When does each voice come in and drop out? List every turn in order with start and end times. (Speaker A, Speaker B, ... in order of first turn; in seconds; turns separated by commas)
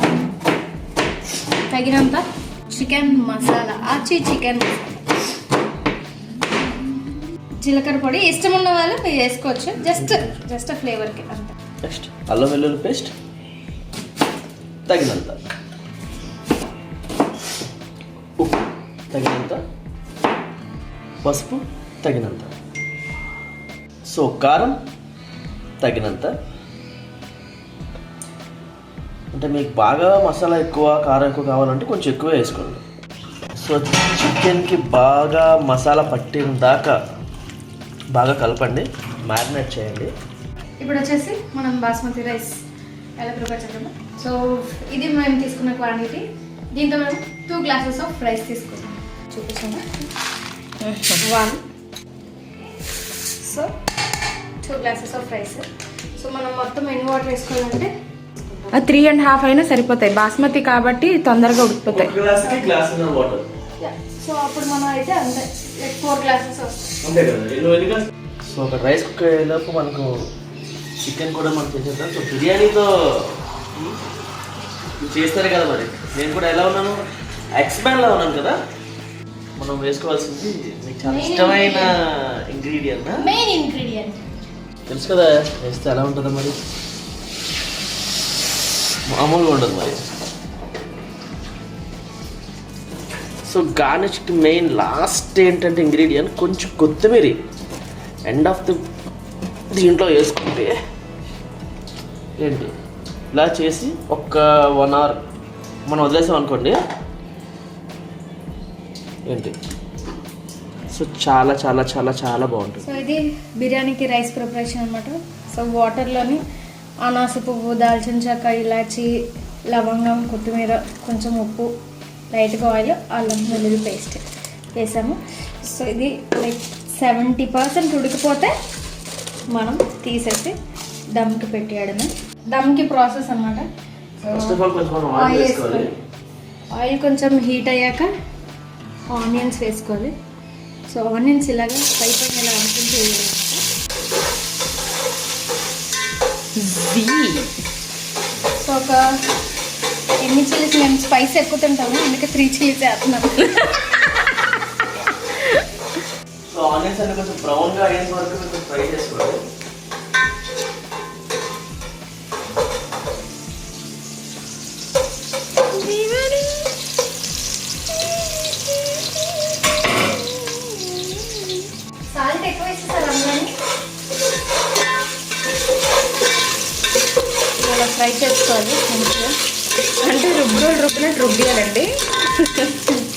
Speaker A: 1.7-5.0, Speaker A: 7.6-11.5, Speaker B: 10.0-10.4, Speaker B: 11.8-13.1, Speaker B: 14.9-15.4, Speaker B: 18.4-19.6, Speaker B: 21.2-22.5, Speaker B: 24.1-24.8, Speaker B: 25.8-26.3, Speaker B: 29.3-32.8, Speaker B: 33.6-37.0, Speaker B: 38.1-40.1, Speaker A: 40.8-42.6, Speaker A: 43.2-44.4, Speaker A: 44.9-50.1, Speaker C: 50.8-51.2, Speaker A: 51.2-51.6, Speaker A: 53.4-53.7, Speaker A: 54.6-57.9, Speaker C: 58.7-62.1, Speaker B: 61.9-63.4, Speaker A: 62.4-62.7, Speaker A: 63.8-66.9, Speaker B: 67.0-70.1, Speaker B: 71.0-74.0, Speaker B: 75.0-77.0, Speaker B: 77.6-78.6, Speaker B: 79.6-83.2, Speaker A: 81.0-82.0, Speaker A: 83.2-84.2, Speaker B: 84.9-86.6, Speaker B: 89.1-90.0, Speaker B: 93.5-97.4, Speaker B: 98.3-98.8, Speaker B: 99.7-100.7, Speaker B: 102.4-102.7, Speaker B: 103.3-105.2, Speaker B: 105.9-106.8, Speaker B: 109.3-109.5, Speaker B: 110.9-112.8, Speaker A: 112.8-116.4, Speaker A: 117.0-119.1, Speaker A: 119.7-121.7, Speaker A: 122.3-124.2, Speaker A: 124.8-128.5, Speaker A: 129.5-130.6, Speaker A: 131.2-133.7, Speaker A: 134.2-134.6, Speaker B: 134.3-135.9, Speaker A: 135.2-135.9, Speaker A: 136.7-138.1, Speaker A: 139.1-140.1, Speaker A: 140.9-143.6, Speaker C: 146.6-147.5, Speaker A: 148.6-149.0, Speaker A: 150.2-153.7, Speaker B: 156.5-159.4, Speaker A: 172.1-173.5, Speaker A: 177.6-179.3, Speaker C: 180.0-182.9